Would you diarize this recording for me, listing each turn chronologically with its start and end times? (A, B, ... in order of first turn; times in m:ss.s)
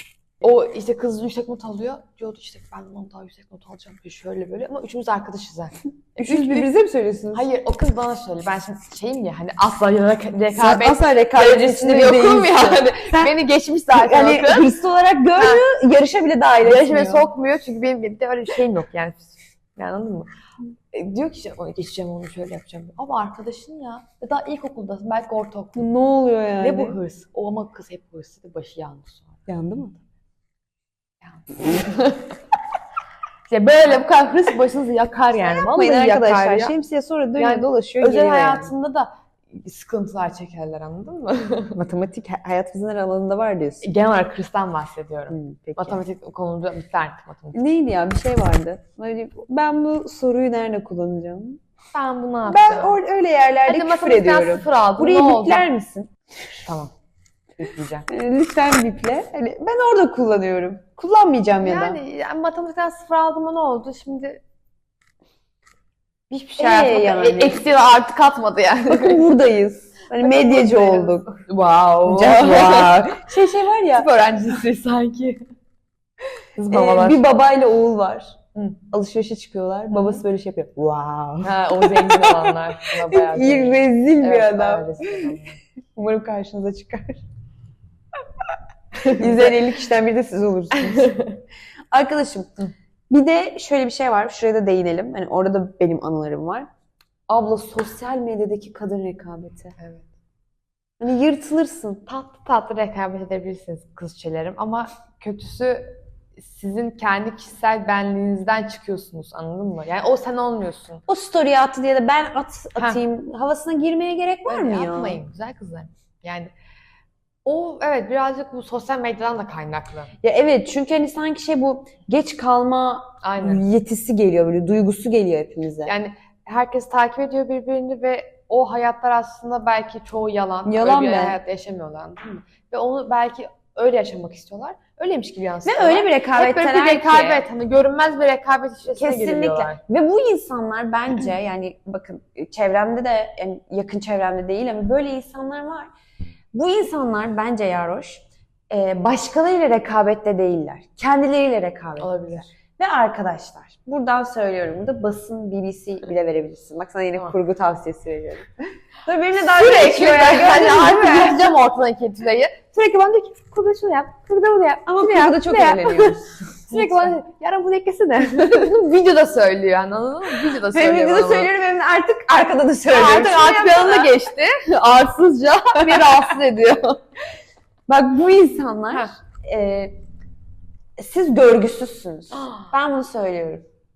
0:00.4-0:06.7 A
0:06.2-0:07.5 B
0:07.3-0:14.7 A
0:10.5-0:13.3 B
0:13.9-0:17.3 B
0:15.4-0:15.6 A
0:16.6-0:20.3 A
0:20.9-0:25.9 A
0:25.8-0:27.0 B
0:26.6-0:29.4 A
0:29.5-0:30.0 B
0:31.2-0:32.3 A
0:33.5-0:36.7 A
0:35.5-0:38.7 B
0:37.4-0:41.8 A
0:41.8-0:43.9 B
0:43.8-0:47.7 A
0:45.3-0:46.0 B
0:47.5-0:51.6 B
0:51.9-0:53.0 A
0:52.5-0:56.6 B
0:53.7-0:55.7 A
0:56.6-0:56.9 A
0:57.6-0:58.1 A
0:58.1-1:02.0 B
1:01.6-1:04.4 A
1:06.3-1:09.2 A
1:06.6-1:07.6 B
1:08.9-1:11.4 B
1:10.2-1:13.3 A
1:12.0-1:14.1 B
1:13.8-1:15.4 A
1:16.6-1:17.2 A
1:16.7-1:18.4 B
1:18.9-1:25.4 B
1:19.9-1:20.2 A
1:21.4-1:25.6 A
1:25.9-1:27.2 B
1:29.0-1:29.6 A
1:29.0-1:31.2 B
1:30.7-1:31.4 A
1:31.9-1:32.6 B
1:33.1-1:36.7 B
1:37.3-1:39.7 B
1:39.8-1:40.1 A
1:41.0-1:42.0 B
1:42.0-1:51.0 A
1:51.1-1:55.2 B
1:54.4-1:56.5 A
1:57.4-2:00.1 A
2:00.2-2:05.9 B
2:03.2-2:03.6 A
2:05.8-2:19.8 A
2:10.6-2:11.4 B
2:15.6-2:17.4 B
2:18.9-2:25.9 B
2:26.5-2:38.5 B
2:32.0-2:32.5 A
2:39.0-2:41.6 B
2:39.3-2:51.5 A
2:44.8-2:47.1 B
2:50.7-2:54.1 B
2:52.9-2:57.0 A
2:55.8-2:56.2 B
2:57.9-3:00.0 B
3:01.0-3:03.6 B
3:02.3-3:02.7 A